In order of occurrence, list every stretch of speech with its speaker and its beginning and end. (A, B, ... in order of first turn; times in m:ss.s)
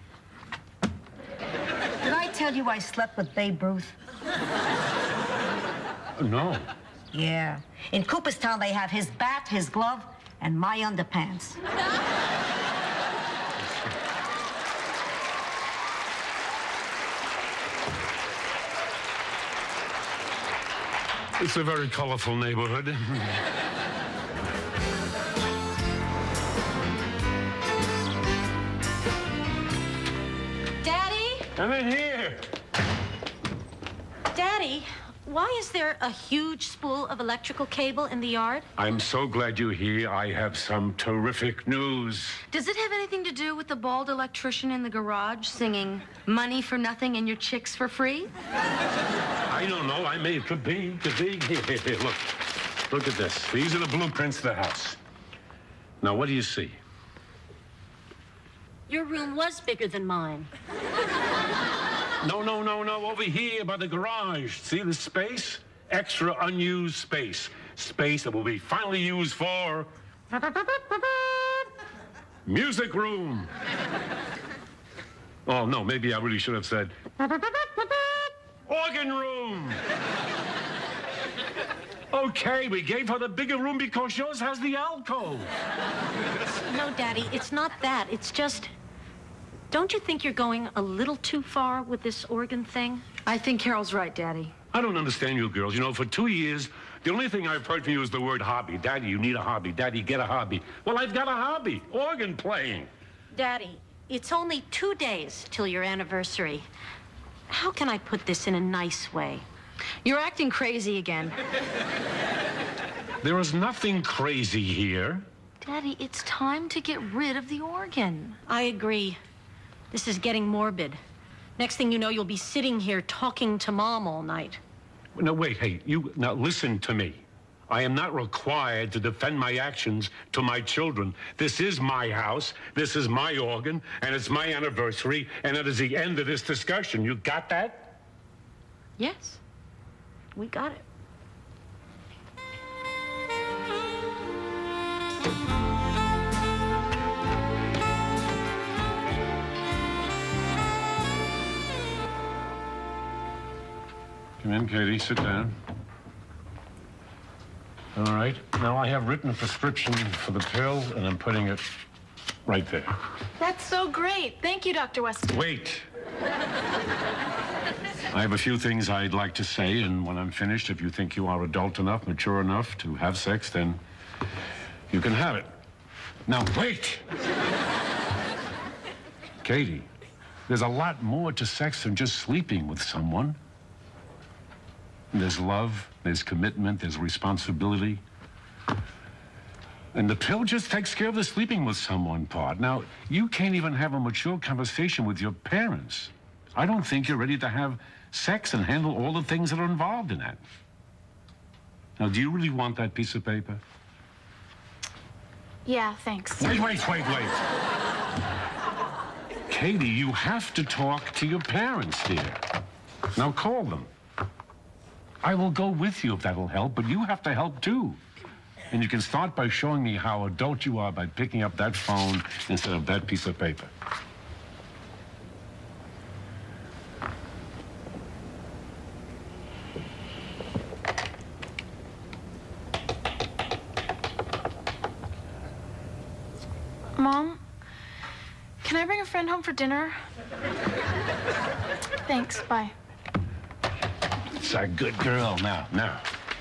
0:02.0-0:03.9 A
0:06.2-0:06.7 B
0:07.1-0:11.6 A
0:21.4-0:23.4 B
0:30.8-0:31.5 C
0:31.5-0:32.5 B
0:34.3-0:38.7 C
0:38.8-0:42.4 B
0:42.5-0:48.3 D
0:49.5-0:55.0 B
0:56.0-0:56.8 B
0:58.9-1:00.5 C
1:02.2-1:11.7 B
1:12.4-1:13.5 B
1:15.4-1:19.8 B
1:22.1-1:25.5 B
1:26.6-1:28.7 C
1:29.7-1:33.0 C
1:33.2-1:34.5 D
1:34.7-1:42.9 B
1:43.3-1:46.6 C
1:47.5-1:49.4 C
1:50.0-1:51.4 D
1:53.2-1:55.3 B
1:55.6-1:58.4 D
1:58.4-1:59.2 C
1:59.9-2:01.0 C
2:01.6-2:04.6 C
2:05.1-2:18.0 B
2:19.0-2:19.4 D
2:20.4-2:20.8 C
2:20.4-2:20.8 D
2:34.4-2:35.6 B
2:37.9-2:41.7 B
2:42.4-2:43.0 B
2:43.4-2:45.4 E
2:45.3-2:45.8 B
2:48.1-2:53.8 B
2:54.9-2:55.5 B
2:56.2-2:57.0 B
2:59.4-2:59.9 B
3:00.5-3:03.4 B
3:05.1-3:08.0 B
3:09.9-3:20.4 B
3:22.0-3:23.6 B
3:25.6-3:26.6 E
3:26.4-3:27.4 B
3:29.5-3:32.4 B
3:33.1-3:33.9 B
3:35.2-3:38.0 B
3:38.7-3:43.7 B
3:57.0-3:57.4 E
3:58.6-4:00.0 E
4:02.0-4:02.7 E
4:04.4-4:06.0 B